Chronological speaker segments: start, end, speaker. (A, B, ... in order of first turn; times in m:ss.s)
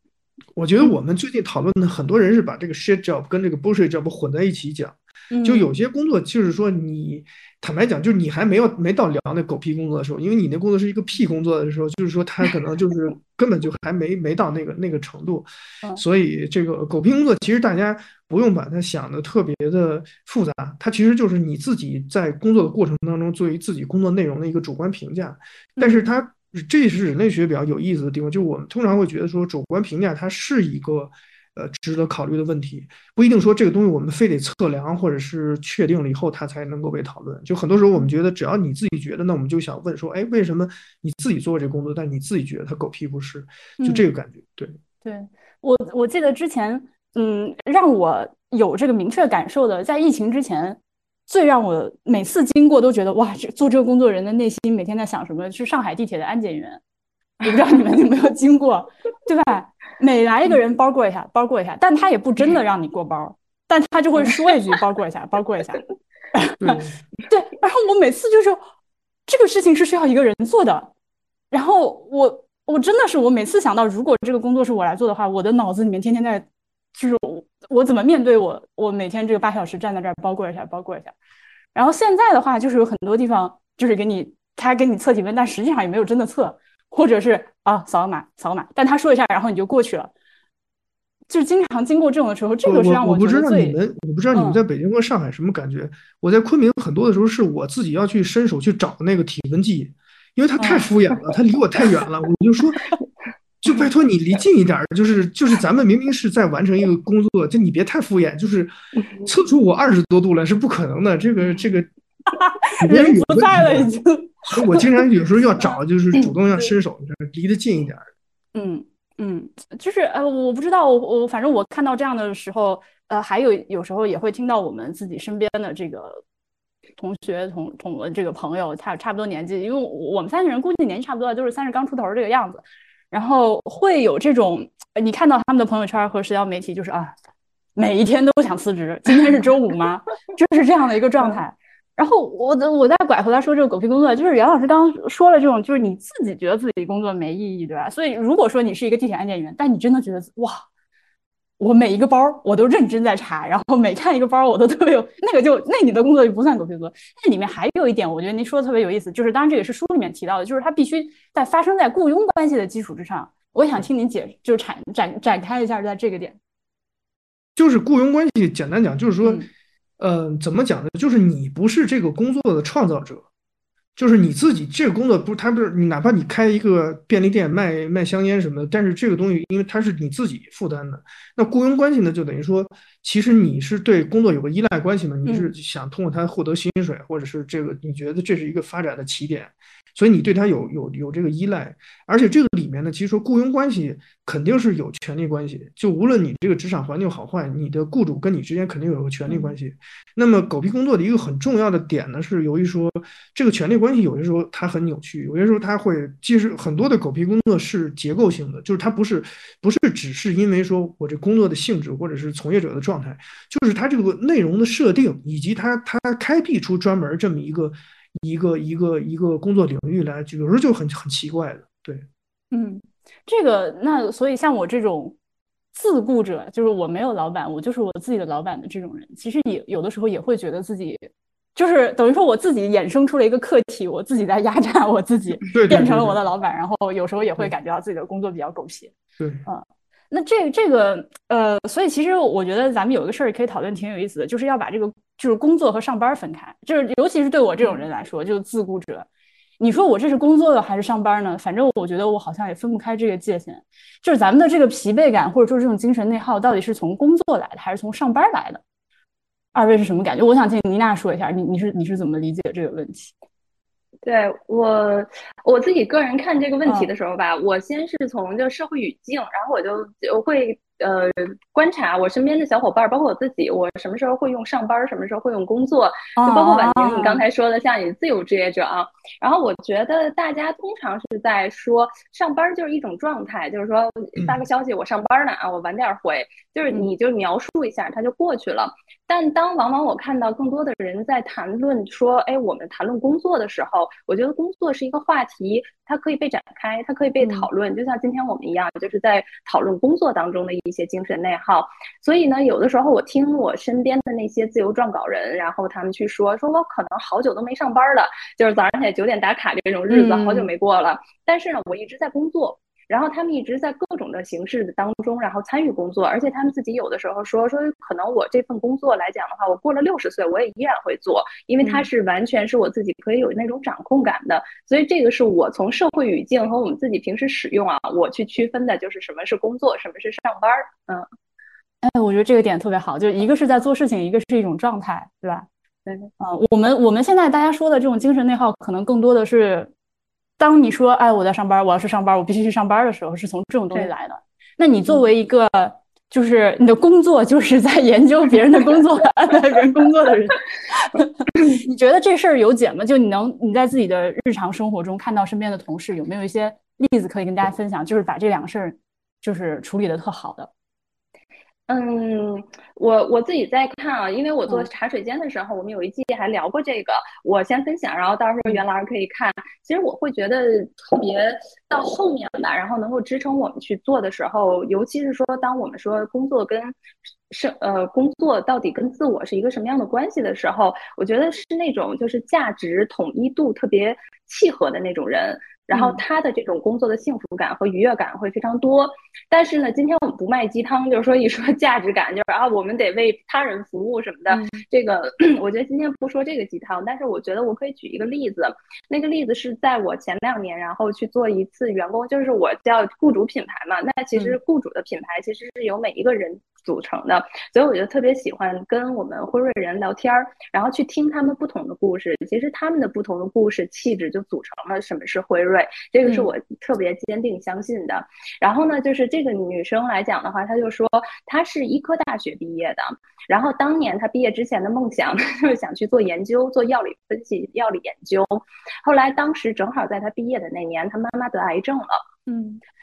0:00.6-0:44.8 A
0:05.3-0:05.7 B
0:25.8-0:26.1 B
0:43.8-0:44.1 B
0:45.0-0:56.8 B
0:57.4-1:05.8 B
1:06.3-1:08.6 B
1:06.6-1:07.0 A
1:09.3-1:10.9 B
1:11.5-1:21.1 B
1:21.7-1:30.1 B
1:31.3-1:33.8 B
1:32.6-1:42.8 A
1:34.3-1:34.6 B
1:40.6-1:40.9 B
1:43.6-1:48.7 A
1:49.3-1:51.9 A
1:52.3-1:55.0 B
1:52.8-1:53.9 A
1:54.5-1:58.1 A
1:58.6-2:06.2 B
2:07.0-2:17.1 B
2:17.8-2:30.6 B
2:31.6-2:46.4 B
2:47.6-2:49.4 A
2:49.2-2:49.5 B
2:50.0-2:53.2 A
2:54.0-3:42.1 A
3:05.2-3:05.5 B
3:19.3-3:19.6 B
3:42.5-3:45.2 B
3:45.7-3:58.9 B
3:55.5-3:56.2 A
3:59.2-3:59.4 A
3:59.4-4:09.1 B
4:09.6-4:18.6 B
4:19.5-4:23.1 B
4:24.0-5:31.1 C
4:36.2-4:37.2 B
4:44.2-4:44.4 A
4:57.2-4:57.5 B
5:09.9-5:10.5 B
5:31.8-5:35.5 B
5:36.2-5:39.7 B
5:40.4-6:00.5 B
6:01.7-6:16.8 C
6:17.3-7:12.0 C
6:25.7-6:26.0 B
6:34.3-6:34.6 B
6:56.0-6:56.3 B
7:12.3-7:12.6 B